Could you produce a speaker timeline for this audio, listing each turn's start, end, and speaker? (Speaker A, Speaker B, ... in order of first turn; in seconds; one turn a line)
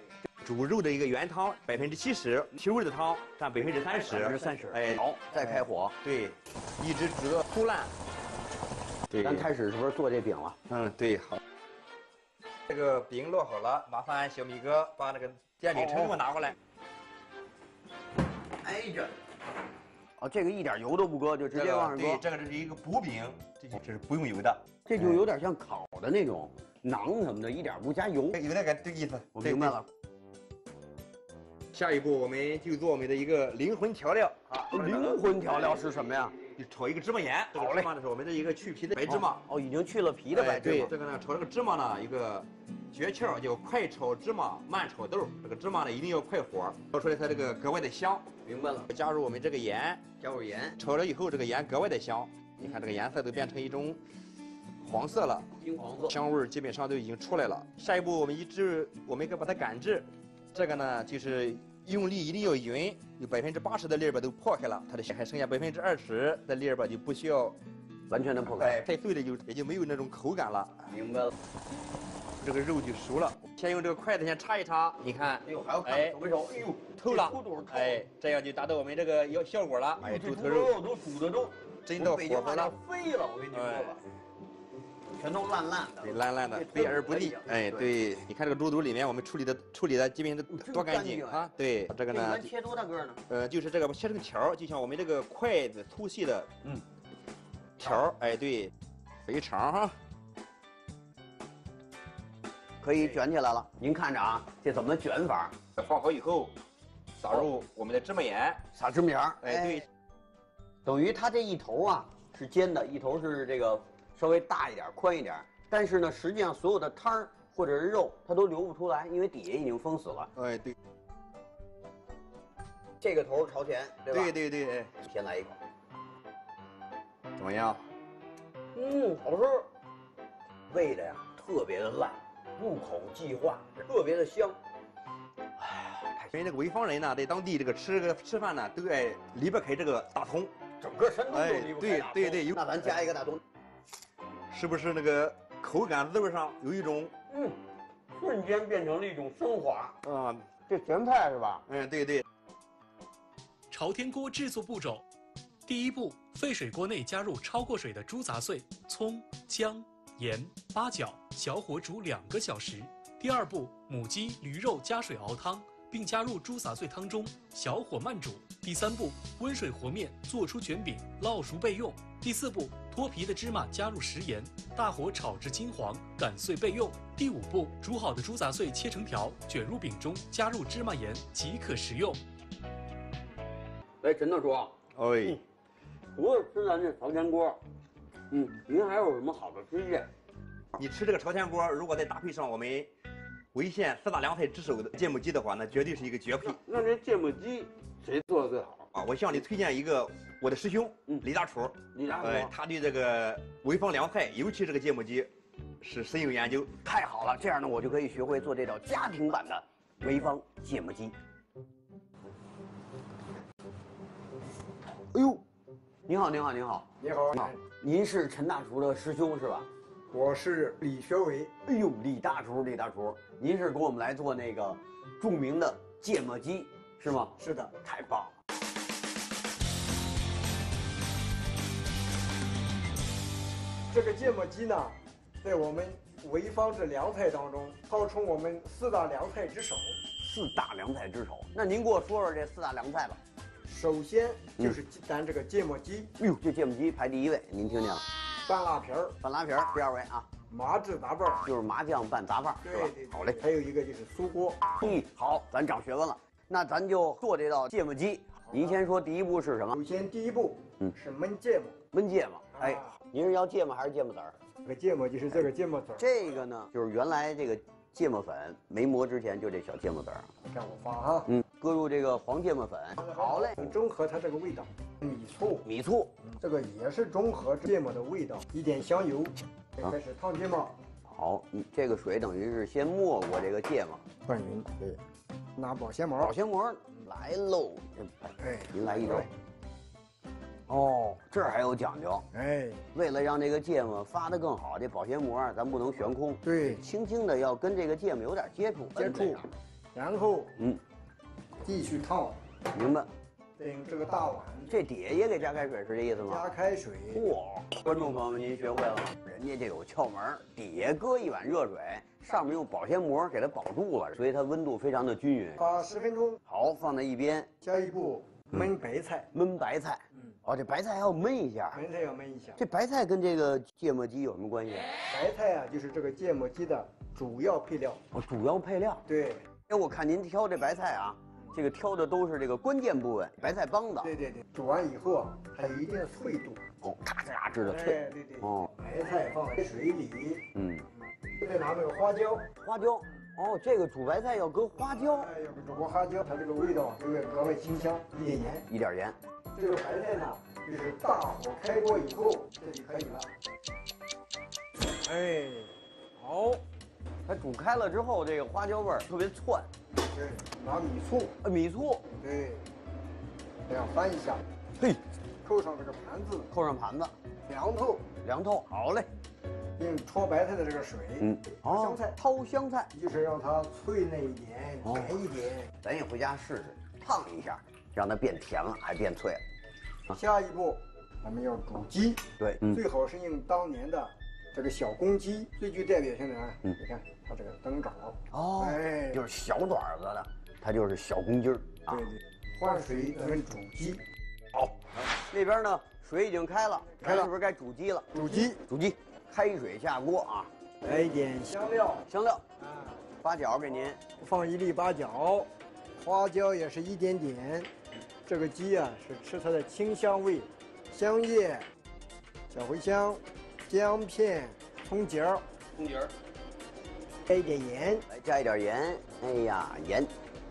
Speaker A: 0.4-7.9
Speaker B: 3.6-5.9
Speaker A: 9.1-9.5
Speaker B: 9.2-10.6
Speaker A: 10.7-11.4
Speaker A: 12.7-16.5
Speaker B: 15.7-16.1
Speaker B: 18.6-19.1
Speaker B: 20.2-22.2
Speaker A: 21.5-24.6
Speaker B: 24.9-28.4
Speaker A: 28.3-29.8
Speaker B: 29.3-29.9
Speaker A: 31.7-35.2
Speaker B: 34.5-36.4
Speaker A: 36.5-39.4
Speaker B: 37.5-37.9
Speaker B: 39.0-40.9
Speaker A: 40.3-48.3
Speaker B: 48.4-48.9
Speaker A: 48.9-50.1
Speaker B: 50.2-50.8
Speaker A: 50.8-54.0
Speaker A: 54.8-55.5
Speaker B: 55.6-56.1
Speaker A: 56.0-67.5
Speaker B: 68.1-68.8
Speaker A: 68.6-70.8
Speaker B: 70.9-71.3
Speaker A: 72.4-76.2
Speaker B: 75.4-78.0
Speaker A: 77.0-80.8
Speaker B: 80.0-84.0
Speaker A: 81.9-82.7
Speaker A: 83.5-83.9
Speaker B: 85.1-87.9
Speaker A: 86.0-92.5
Speaker B: 90.5-91.5
Speaker B: 92.1-93.2
Speaker A: 93.3-96.5
Speaker A: 97.8-98.7
Speaker A: 99.2-99.9
Speaker B: 102.8-105.5
Speaker A: 105.8-106.5
Speaker A: 107.2-108.6
Speaker B: 108.7-109.8
Speaker A: 109.4-109.8
Speaker B: 110.8-120.3
Speaker A: 120.3-120.7
Speaker B: 123.0-124.3
Speaker A: 124.1-124.9
Speaker B: 125.0-125.6
Speaker A: 127.4-127.8
Speaker B: 128.7-129.7
Speaker B: 130.7-134.6
Speaker B: 135.6-136.4
Speaker A: 136.3-140.5
Speaker B: 140.8-143.4
Speaker A: 141.3-142.6
Speaker A: 144.5-147.1
Speaker B: 147.3-147.6
Speaker B: 148.1-150.0
Speaker A: 150.0-150.5
Speaker B: 150.7-151.6
Speaker A: 151.7-152.2
Speaker C: 153.7-155.0
Speaker C: 155.7-182.2
Speaker B: 184.0-185.4
Speaker A: 184.9-185.4
Speaker B: 186.1-187.6
Speaker B: 188.3-190.1
Speaker A: 190.8-192.9
Speaker A: 193.5-196.6
Speaker B: 196.4-198.9
Speaker A: 198.9-205.3
Speaker B: 201.9-202.5
Speaker A: 205.8-206.7
Speaker B: 206.8-211.1
Speaker B: 215.1-215.4
Speaker B: 216.1-219.7
Speaker D: 217.0-217.6
Speaker D: 220.1-221.5
Speaker B: 221.7-228.4
Speaker D: 227.4-227.7
Speaker D: 233.9-240.0
Speaker B: 240.2-243.2
Speaker D: 243.7-246.1
Speaker B: 246.2-248.0
Speaker D: 248.4-249.2
Speaker B: 249.2-250.3
Speaker D: 250.5-251.4
Speaker B: 251.4-253.4
Speaker D: 252.6-254.7
Speaker B: 254.8-259.8
Speaker D: 258.5-258.8
Speaker D: 259.7-261.8
Speaker B: 261.9-264.4
Speaker D: 262.5-262.9
Speaker D: 264.6-266.1
Speaker B: 266.0-270.3
Speaker D: 270.4-271.3
Speaker B: 271.3-273.8
Speaker D: 273.0-275.6
Speaker B: 275.6-276.2
Speaker D: 276.2-280.8
Speaker B: 281.1-284.0
Speaker D: 284.2-285.0
Speaker D: 285.6-286.3
Speaker B: 286.2-289.3
Speaker D: 288.4-289.3
Speaker B: 290.7-292.3
Speaker D: 292.3-292.9
Speaker B: 292.9-299.5
Speaker D: 296.4-296.8
Speaker D: 298.9-299.4
Speaker D: 299.9-300.5
Speaker D: 301.6-302.4
Speaker B: 302.7-303.1
Speaker D: 303.6-304.7
Speaker B: 304.7-306.5
Speaker D: 306.3-307.3
Speaker B: 307.1-315.6
Speaker D: 315.6-316.4
Speaker B: 316.4-317.5
Speaker D: 317.6-319.3
Speaker B: 319.3-321.8
Speaker D: 321.7-322.6
Speaker B: 322.6-324.9
Speaker D: 325.1-328.0
Speaker B: 328.1-329.0
Speaker D: 329.1-329.5
Speaker B: 329.7-334.1
Speaker D: 334.0-336.6
Speaker B: 336.8-338.7
Speaker D: 337.6-340.4
Speaker B: 340.5-340.9
Speaker D: 341.0-342.5
Speaker B: 342.6-345.3
Speaker D: 345.0-348.6
Speaker B: 348.7-349.2
Speaker D: 349.5-353.3
Speaker D: 355.0-356.6
Speaker B: 357.3-359.7
Speaker D: 360.1-361.3
Speaker B: 361.4-362.1
Speaker D: 362.2-362.6
Speaker D: 363.7-364.4
Speaker D: 365.4-366.5
Speaker B: 366.5-367.1
Speaker D: 367.4-368.1
Speaker B: 368.2-369.1
Speaker D: 369.8-372.1
Speaker B: 371.2-372.9
Speaker D: 372.9-375.7
Speaker B: 374.8-375.1
Speaker B: 375.8-379.4
Speaker D: 380.1-389.2
Speaker B: 382.4-382.8
Speaker B: 388.3-392.1
Speaker D: 391.9-394.0
Speaker B: 394.6-400.5
Speaker D: 397.0-397.3
Speaker D: 398.1-398.6
Speaker D: 400.8-402.0
Speaker B: 402.1-402.4
Speaker D: 402.6-403.0
Speaker B: 403.2-404.0
Speaker D: 404.2-407.7
Speaker D: 408.2-411.7
Speaker D: 412.5-415.4
Speaker B: 415.7-416.1
Speaker D: 417.3-418.0
Speaker B: 418.1-420.1